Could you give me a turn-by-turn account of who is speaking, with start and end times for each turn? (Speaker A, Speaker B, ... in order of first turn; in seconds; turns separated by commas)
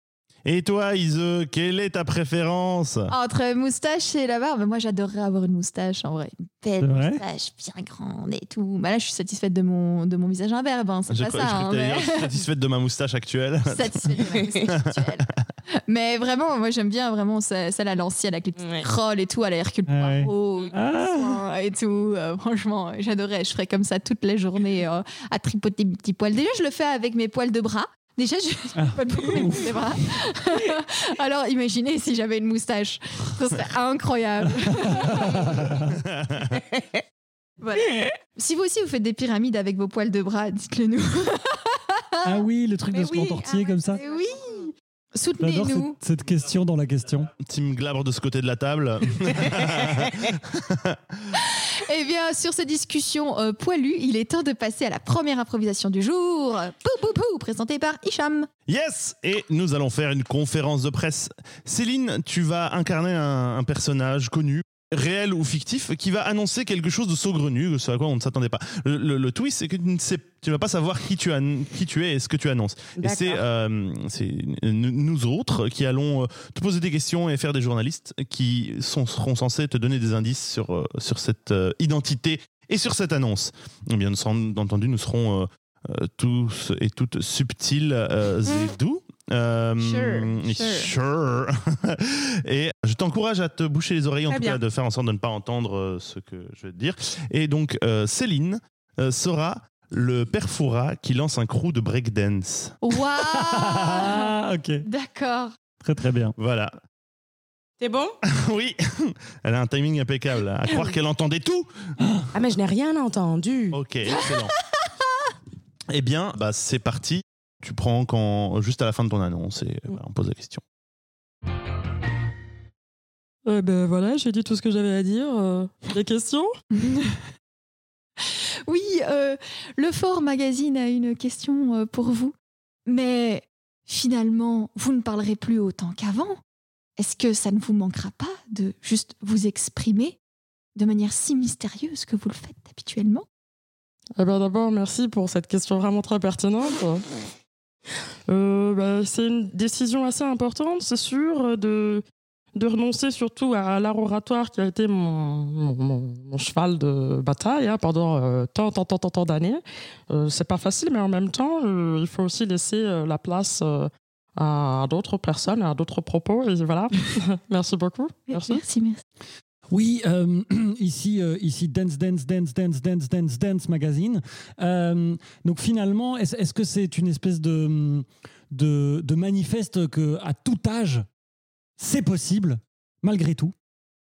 Speaker A: 0.4-3.1, Speaker B: 3.1-12.4, Speaker C: 6.8-7.2, Speaker A: 11.1-15.3, Speaker B: 13.7-15.3, Speaker B: 15.9-35.8, Speaker D: 18.6-18.8, Speaker C: 19.9-21.4, Speaker C: 28.8-29.8, Speaker C: 34.5-36.0, Speaker A: 36.0-36.5, Speaker D: 36.6-37.0, Speaker B: 37.6-42.4, Speaker C: 42.2-44.0, Speaker D: 42.9-44.6, Speaker B: 43.9-46.0, Speaker C: 45.4-47.3, Speaker A: 47.4-51.3, Speaker B: 51.4-58.5, Speaker A: 58.7-102.8, Speaker D: 73.0-73.4, Speaker D: 89.8-90.9, Speaker D: 94.3-94.6, Speaker B: 102.8-105.5, Speaker C: 103.3-104.8, Speaker C: 105.8-106.3, Speaker A: 106.4-106.8, Speaker D: 107.8-108.2, Speaker A: 108.3-111.7, Speaker D: 110.7-110.9, Speaker C: 112.0-112.3, Speaker D: 112.3-113.8, Speaker A: 113.7-114.5, Speaker B: 114.1-114.8, Speaker A: 115.9-120.6, Speaker E: 123.5-126.5, Speaker B: 126.8-127.2, Speaker B: 128.2-132.3, Speaker B: 132.8-136.4, Speaker B: 137.0-140.2, Speaker B: 140.8-143.2, Speaker E: 144.2-147.0, Speaker E: 148.3-168.6, Speaker B: 168.3-169.0, Speaker C: 169.7-181.1, Speaker C: 181.8-183.5